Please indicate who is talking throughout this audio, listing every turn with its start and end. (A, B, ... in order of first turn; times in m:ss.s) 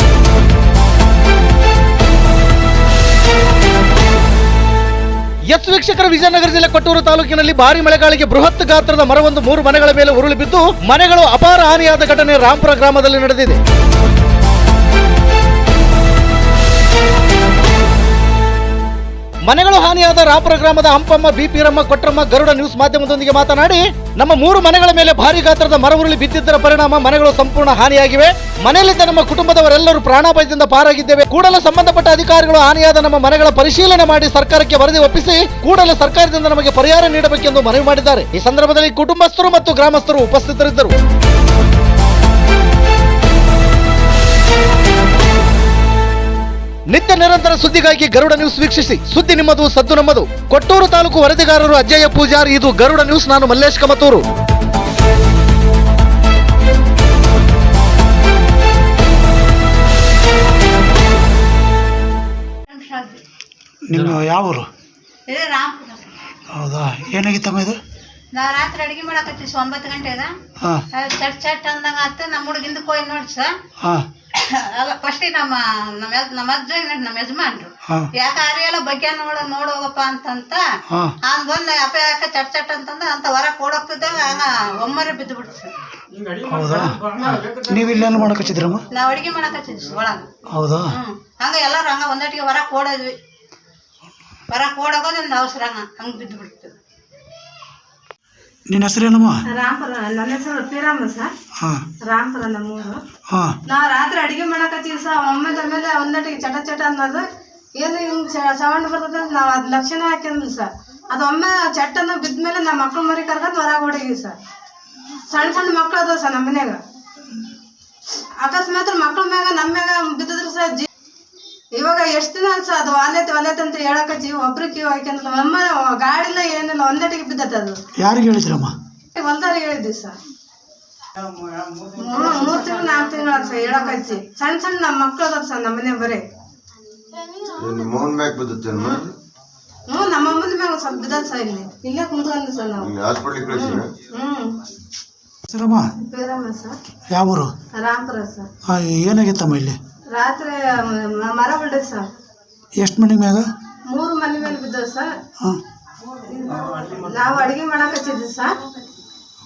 0:05.5-0:13.6 A
0:19.5-0:40.9 A
0:46.9-0:54.2 A
1:02.7-1:03.2 B
1:03.8-1:04.7 C
1:05.3-1:06.2 B
1:06.5-1:07.8 C
1:08.3-1:10.3 B
1:10.9-1:13.6 B
1:14.3-1:20.6 B
1:20.9-1:21.1 C
1:21.2-1:25.7 B
1:26.4-1:28.8 C
1:28.9-1:30.3 B
1:30.5-1:30.9 C
1:30.9-1:33.2 B
1:34.5-1:36.7 B
1:38.7-1:39.4 C
1:39.5-1:41.3 D
1:41.6-1:41.8 C
1:42.0-1:43.0 D
1:43.3-1:43.6 C
1:43.7-1:47.2 D
1:47.8-1:54.4 D
1:55.3-1:56.8 D
1:58.4-2:00.9 D
2:01.7-2:07.8 D
2:08.0-2:08.7 C
2:09.2-2:10.2 D
2:12.0-2:16.2 D
2:17.6-2:19.1 E
2:19.9-2:22.9 D
2:22.8-2:23.9 E
2:23.5-2:24.6 D
2:25.5-2:25.9 C
2:26.0-2:26.8 D
2:27.1-2:27.5 C
2:27.8-2:28.5 D
2:28.6-2:29.8 C
2:30.1-2:32.1 D
2:32.8-2:33.5 C
2:33.9-2:35.1 D
2:36.3-2:38.5 D